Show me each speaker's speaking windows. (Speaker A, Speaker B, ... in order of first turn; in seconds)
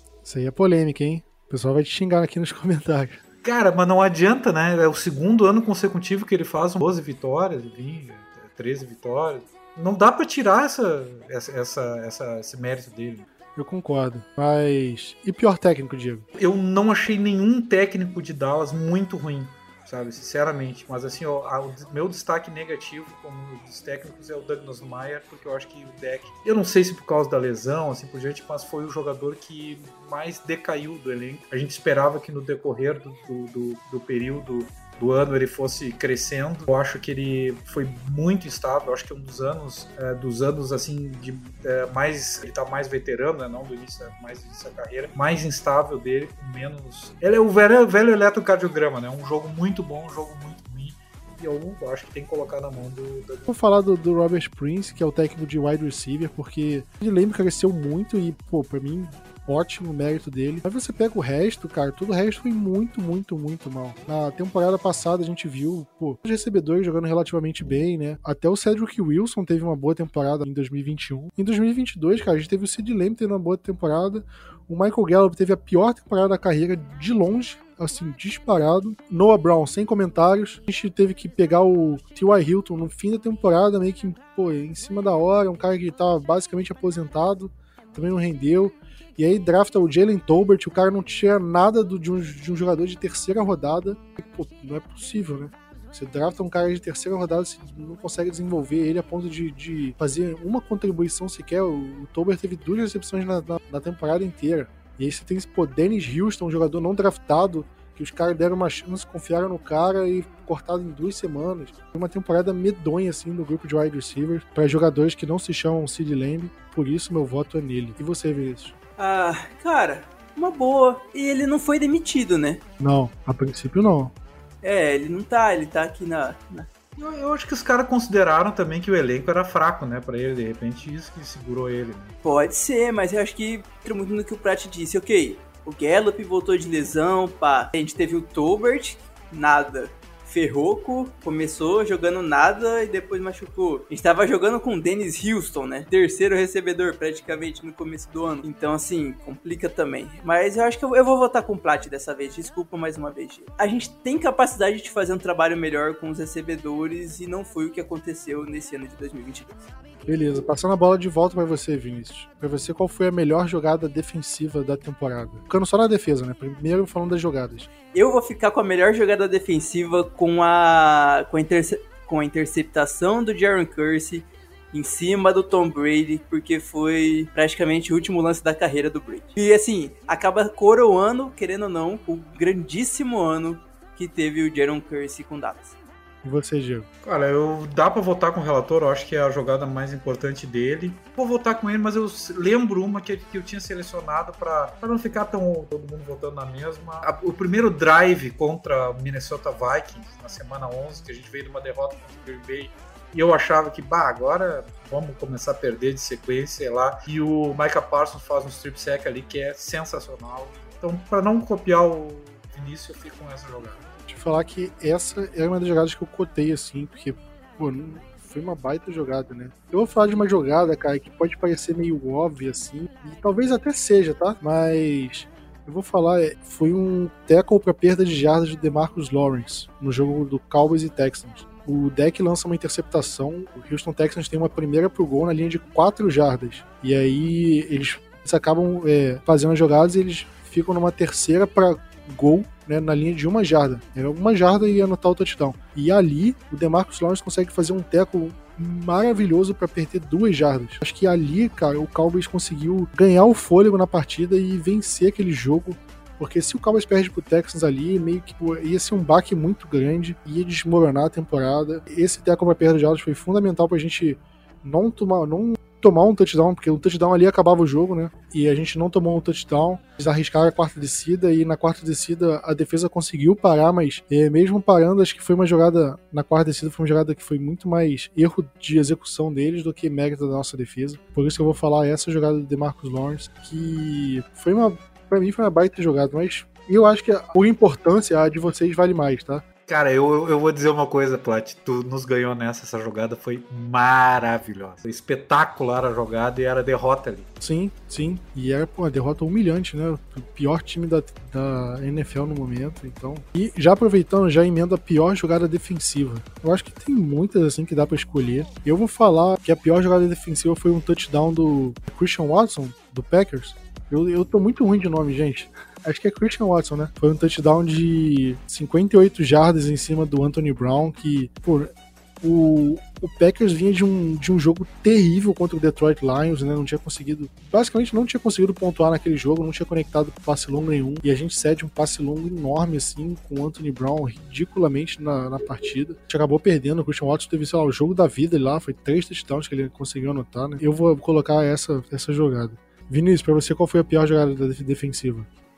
Speaker A: 0.2-3.2, 13.6-16.2, 53.5-118.7, 122.8-124.1, 160.1-167.7, 186.2-186.9, 214.1-289.4, 297.4-345.3
Speaker B: 3.4-13.3, 16.4-53.5, 127.0-132.2, 187.0-213.8, 289.7-297.3
Speaker C: 119.0-122.6, 124.6-126.7, 132.2-159.6, 167.9-185.7